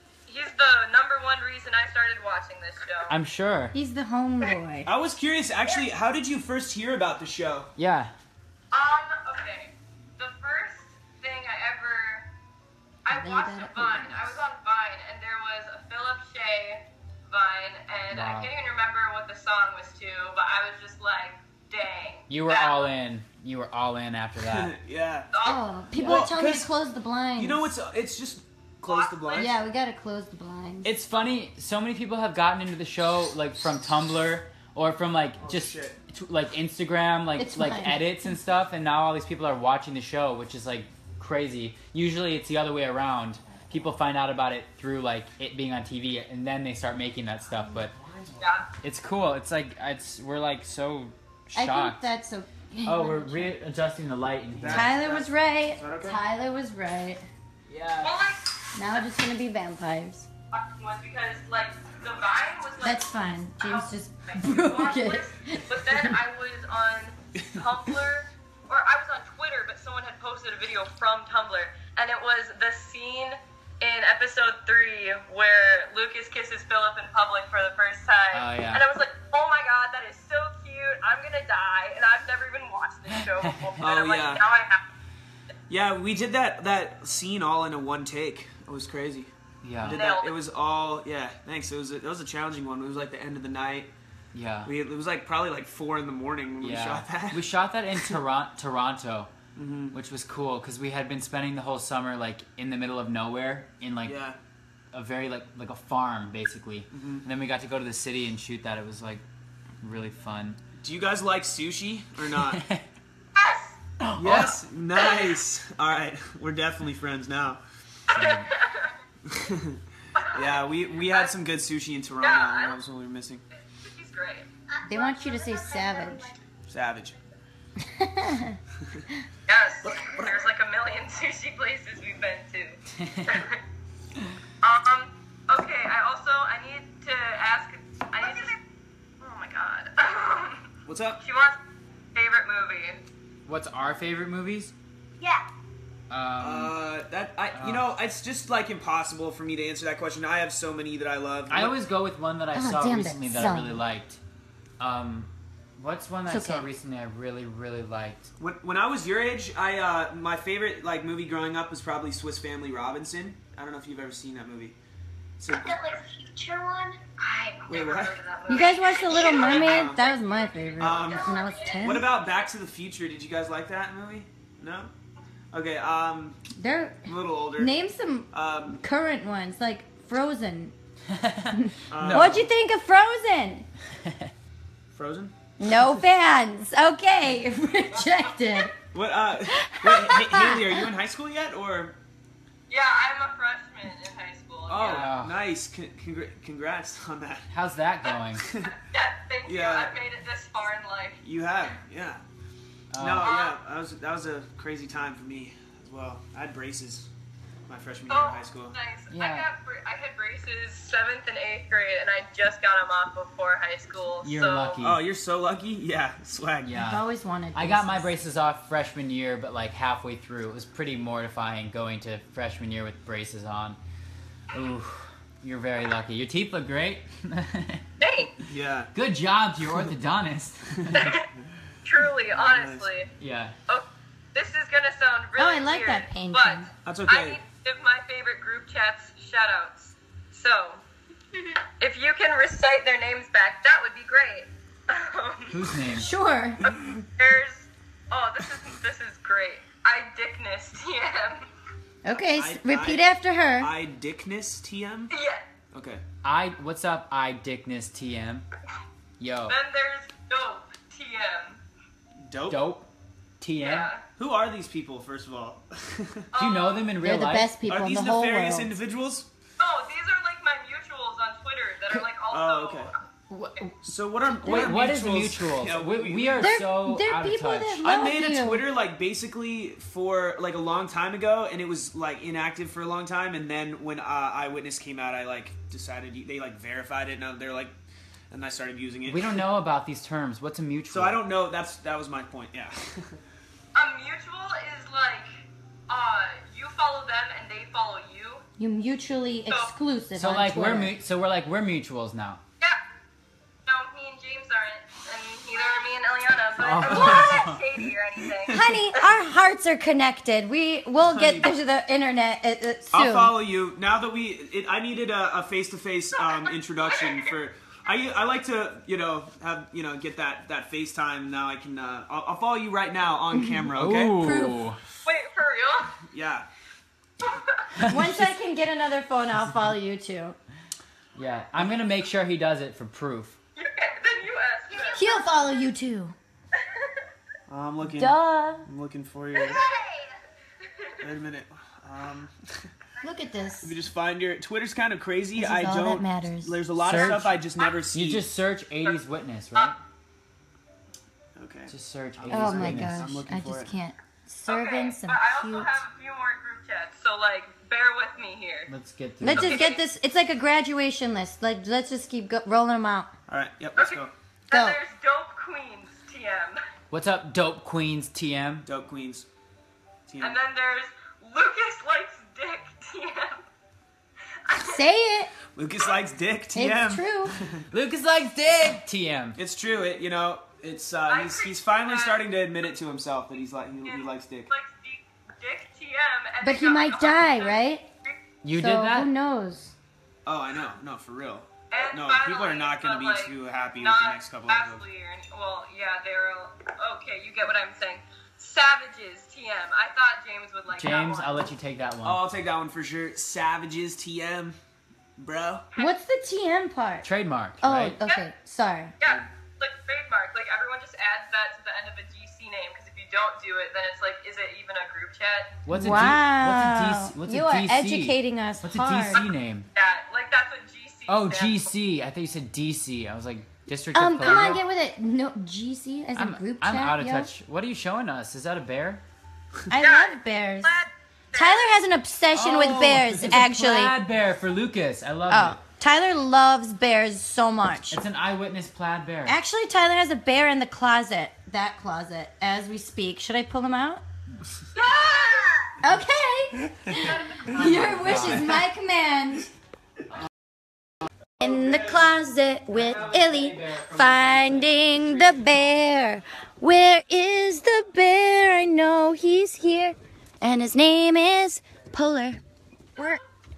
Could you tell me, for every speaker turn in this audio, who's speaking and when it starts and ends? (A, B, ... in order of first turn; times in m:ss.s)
0:00.3-0:03.1 A
0:03.1-0:03.8 B
0:03.7-0:04.9 C
0:04.9-0:07.7 D
0:07.8-0:08.1 B
0:08.7-0:12.3 A
0:13.0-0:22.8 A
0:13.1-0:14.4 C
0:18.1-0:18.5 B
0:22.3-0:24.7 B
0:24.4-0:25.3 D
0:25.3-0:25.6 A
0:25.4-0:27.7 C
0:25.9-0:26.3 B
0:26.0-0:26.7 D
0:27.4-0:29.6 D
0:28.9-0:29.5 A
0:29.3-0:30.9 C
0:30.8-0:47.9 B
0:35.4-0:36.0 D
0:37.4-0:38.1 C
0:47.6-0:48.5 D
0:48.4-0:48.7 A
0:48.8-0:52.1 B
0:51.5-0:53.6 C
0:52.9-0:55.0 B
0:54.5-0:56.2 D
0:54.7-0:57.2 C
0:57.7-0:58.2 B
0:58.0-0:58.5 A
0:58.8-1:00.3 C
1:00.5-1:03.1 A
1:02.8-1:06.1 C
1:03.6-1:24.8 A
1:18.3-1:18.8 B
1:23.2-1:23.8 B
1:23.8-1:24.4 D
1:25.7-1:33.9 D
1:29.6-1:30.0 B
1:29.9-1:30.3 A
1:34.3-1:34.7 B
1:34.6-1:37.5 D
1:36.6-1:39.3 B
1:39.6-1:40.0 D
1:39.9-1:44.2 B
1:44.0-1:44.4 D
1:44.9-1:49.2 B
1:46.9-1:47.3 D
1:49.8-1:50.6 B
1:50.8-1:52.6 D
1:52.4-1:52.9 B
1:53.4-1:53.7 A
1:54.0-1:54.6 B
1:54.2-1:57.6 D
1:58.1-1:58.5 B
1:58.1-1:58.9 A
1:59.3-2:03.4 D
2:00.2-2:01.3 A
2:02.2-2:02.8 A
2:03.8-2:04.5 A
2:04.7-2:06.4 E
2:04.9-2:06.3 C
2:06.7-2:07.2 D
2:07.8-2:08.6 C
2:09.5-2:13.6 A
2:09.8-2:10.4 D
2:13.0-2:13.4 B
2:14.6-2:18.6 A
2:18.2-2:18.6 E
2:19.2-2:20.7 A
2:20.9-2:21.2 D
2:21.2-2:21.6 A
2:22.2-2:23.0 A
2:23.5-2:24.7 B
2:25.2-2:25.5 E
2:26.1-2:26.8 B
2:26.4-2:31.8 D
2:27.5-2:27.8 B
2:31.5-2:34.2 B
2:32.5-2:33.8 C
2:34.8-2:38.3 B
2:36.3-2:36.7 C
2:38.4-2:44.8 D
2:45.4-2:45.9 D
2:45.5-2:47.8 E
2:47.5-2:51.4 A
2:47.7-2:48.2 D
2:48.5-2:52.1 C
2:48.5-2:49.5 E
2:49.4-2:50.0 D
2:50.8-2:54.9 D
2:51.0-2:52.4 E
2:55.5-2:56.4 D
2:56.6-3:00.7 C
2:57.1-2:57.7 D
2:58.3-2:58.8 D
3:01.1-3:02.5 B
3:01.5-3:03.7 C
3:01.9-3:02.5 D
3:03.9-3:04.3 B
3:04.9-3:05.4 D
3:05.6-3:08.7 C
3:08.9-3:12.0 D
3:09.5-3:10.7 C
3:12.7-3:15.1 A
3:14.7-3:17.5 D
3:14.8-3:15.4 B
3:17.5-3:18.5 B
3:18.4-3:18.7 D
3:18.8-3:21.2 A
3:19.5-3:19.9 D
3:21.2-3:22.2 D
3:22.9-3:23.4 B
3:23.0-3:27.1 D
3:23.2-3:23.6 A
3:27.7-3:28.8 D
3:28.1-3:34.8 A
3:29.1-3:29.5 B
3:34.2-3:35.0 B
3:34.8-3:36.8 D
3:36.6-3:43.8 B
3:36.8-3:38.1 C
3:44.5-3:47.8 B
3:48.0-3:48.3 A
3:48.4-3:48.9 D
3:48.9-3:51.2 B
3:50.9-3:51.3 A
3:51.8-3:53.1 A
3:52.3-3:52.9 D
3:53.2-3:53.6 B
3:53.7-4:00.8 A
3:55.4-3:56.7 C
3:56.8-3:57.4 D
4:01.8-4:05.6 A
4:05.5-4:06.1 B
4:05.9-4:06.6 C
4:06.6-4:11.5 A
4:12.0-4:13.7 C
4:12.1-4:13.1 D
4:13.6-4:15.1 D
4:15.1-4:15.4 A
4:15.7-4:16.0 D
4:16.2-4:18.4 B
4:19.2-4:19.6 B
4:19.5-4:21.6 A
4:22.2-4:22.6 D
4:22.5-4:22.9 B
4:23.4-4:23.9 B
4:23.6-4:24.0 A
4:24.2-4:26.3 D
4:26.3-4:26.9 A
4:26.4-4:27.5 B
4:27.0-4:28.7 C
4:27.7-4:29.3 D
4:29.6-4:33.0 A
4:32.3-4:32.9 D
4:33.3-4:33.6 B
4:33.8-4:36.6 D
4:34.4-4:37.9 B
4:34.4-4:34.8 C
4:36.4-4:38.6 C
4:37.8-4:47.7 D
4:48.3-4:49.4 D
4:49.1-4:51.2 B
4:50.9-4:53.2 D
4:53.8-4:58.4 A
4:58.6-5:00.9 C
5:00.2-5:02.4 B
5:03.7-5:08.8 A
5:06.6-5:07.6 B
5:06.9-5:07.2 D
5:08.5-5:13.3 C
5:11.0-5:11.5 D
5:12.9-5:24.2 D
5:16.2-5:17.3 A
5:23.8-5:24.8 B
5:24.2-5:24.6 C
5:25.0-5:26.0 A
5:26.1-5:26.5 D
5:27.2-5:27.7 A
5:27.8-5:28.3 B
5:27.9-5:30.4 C
5:31.2-5:33.4 B
5:33.6-5:35.0 A
5:34.7-5:35.5 E
5:34.9-5:36.2 C
5:36.6-5:37.0 A
5:37.5-5:39.7 D
5:37.9-5:38.7 C
5:39.4-5:40.1 E
5:41.0-5:42.7 D
5:43.0-5:43.8 C
5:43.6-5:48.3 D
5:45.4-5:46.6 C
5:46.8-5:47.4 B
5:46.9-5:47.7 A
5:47.9-5:49.8 B
5:51.4-5:53.7 D
5:51.7-5:53.1 B
5:52.3-5:55.8 C
5:54.5-5:58.7 A
5:58.7-5:59.7 B
5:59.2-6:03.1 C
5:59.3-5:59.8 A
6:03.3-6:04.1 D
6:03.8-6:06.6 A
6:04.5-6:04.8 C
6:06.9-6:08.7 B
6:08.6-6:09.3 D
6:10.1-6:10.4 D
6:10.2-6:13.4 A
6:14.4-6:14.8 A
6:14.5-6:15.3 C
6:15.6-6:17.7 D
6:16.6-6:17.4 C
6:17.7-6:19.4 B
6:19.4-6:24.5 D
6:21.1-6:22.3 A
6:23.8-6:28.1 A
6:26.4-6:27.8 C
6:28.4-6:29.1 B
6:28.5-6:29.8 C
6:30.3-6:34.8 D
6:31.7-6:41.4 A
6:40.8-6:42.2 B
6:42.0-6:44.6 D
6:45.2-6:45.7 D
6:45.7-6:46.0 A
6:45.8-6:47.1 C
6:47.0-6:48.0 B
6:47.6-6:48.9 C
6:49.0-6:55.6 A
6:55.7-6:59.7 B
6:55.7-6:59.2 C
6:59.2-7:01.7 A
7:01.1-7:04.6 B
7:03.9-7:07.3 C
7:04.2-7:04.6 A
7:06.2-7:09.0 B
7:09.7-7:13.9 C
7:09.8-7:11.8 A
7:12.3-7:15.6 B
7:15.3-7:18.0 C
7:17.9-7:19.4 B
7:19.3-7:24.0 C
7:24.8-7:25.6 A
7:24.8-7:25.8 E
7:25.8-7:29.5 C
7:27.4-7:28.6 B
7:31.4-7:42.4 C
7:31.4-7:32.0 B
7:32.7-7:35.6 B